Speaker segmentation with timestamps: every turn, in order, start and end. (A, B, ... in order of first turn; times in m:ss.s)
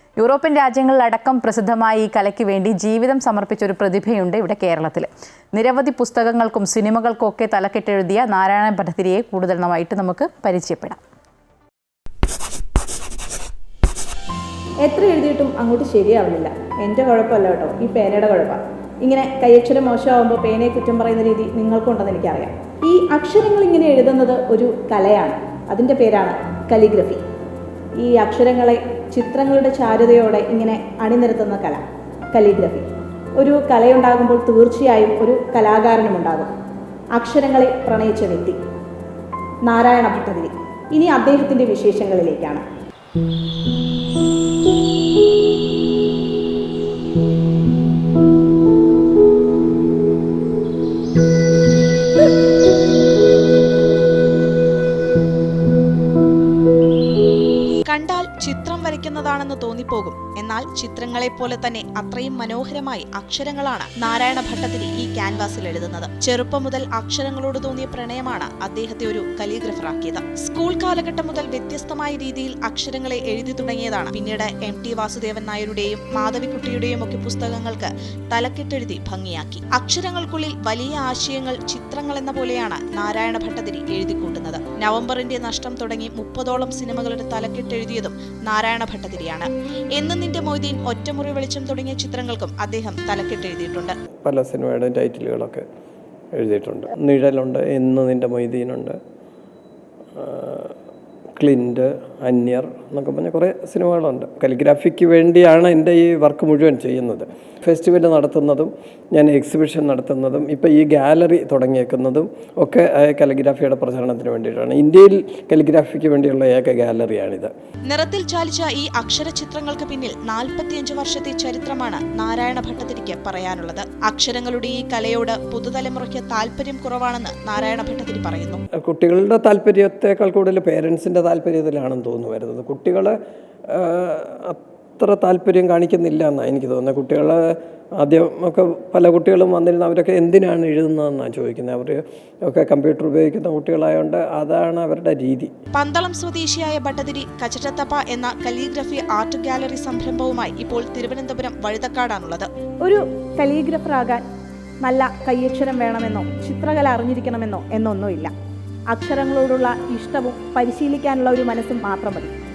0:00.2-0:11.0 A
0:14.8-0:27.2 B
0:28.0-0:36.5 B
0:37.2-0:38.6 B
0:39.6-0:42.6 B
0:57.8-1:34.0 C
1:34.2-1:35.6 D
1:36.4-1:39.0 D
1:40.2-1:40.7 D
1:41.4-1:57.5 D
1:57.9-2:08.6 C
2:08.8-2:13.2 D
2:13.7-2:25.5 D
2:25.7-2:32.5 C
2:32.8-2:34.2 B
2:34.8-2:38.3 B
2:38.9-2:42.3 B